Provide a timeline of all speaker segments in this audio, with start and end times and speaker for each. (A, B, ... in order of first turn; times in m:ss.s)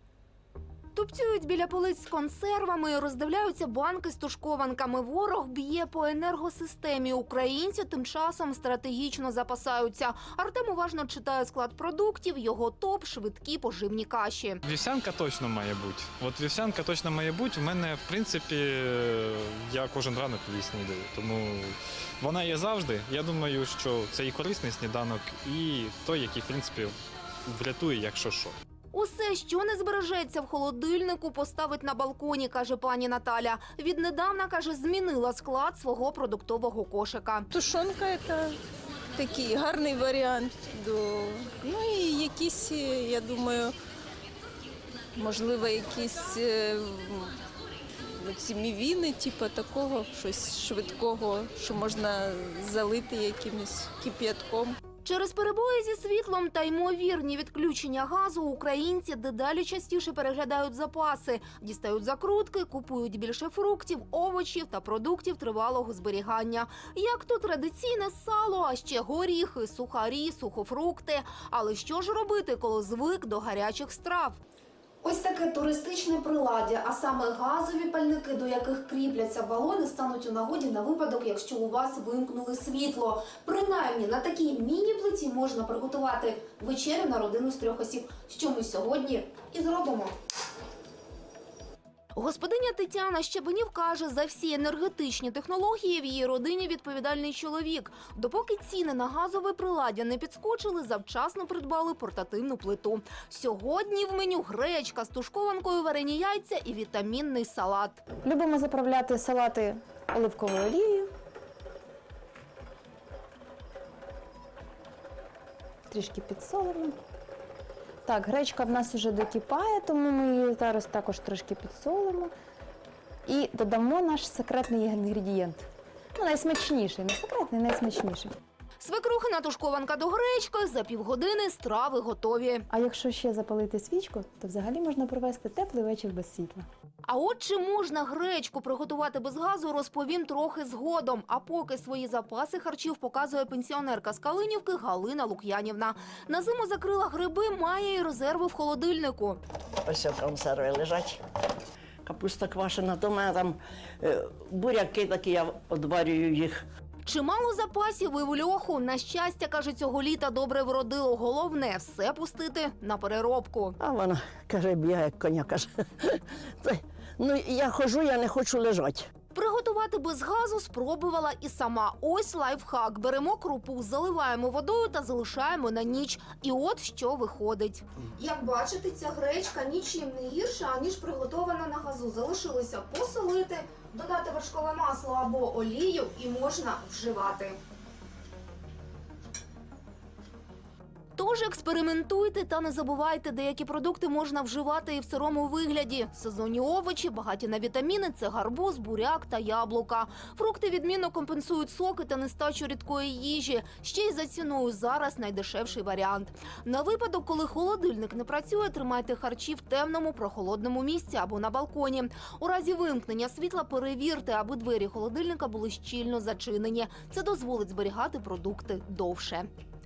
0:01.0-0:14.6 A
0:14.6-0:27.0 B
0:27.5-0:28.6 B
0:28.9-0:37.5 A
0:37.5-0:38.6 C
0:39.1-0:43.8 C
0:45.1-0:47.4 C
0:48.0-0:54.8 C
0:55.0-1:14.4 A
1:15.0-1:30.1 A
1:32.2-1:48.0 A
1:48.2-1:51.1 D
1:55.9-1:57.0 D
1:58.0-2:02.3 D
2:03.3-2:08.3 D
2:08.8-2:12.6 A
2:12.7-2:16.6 D
2:17.1-2:29.4 A
2:29.8-2:31.2 E
2:32.0-2:36.6 E
2:37.1-2:43.8 A
2:43.8-2:49.1 E
2:49.3-3:07.6 A
3:11.2-3:39.5 A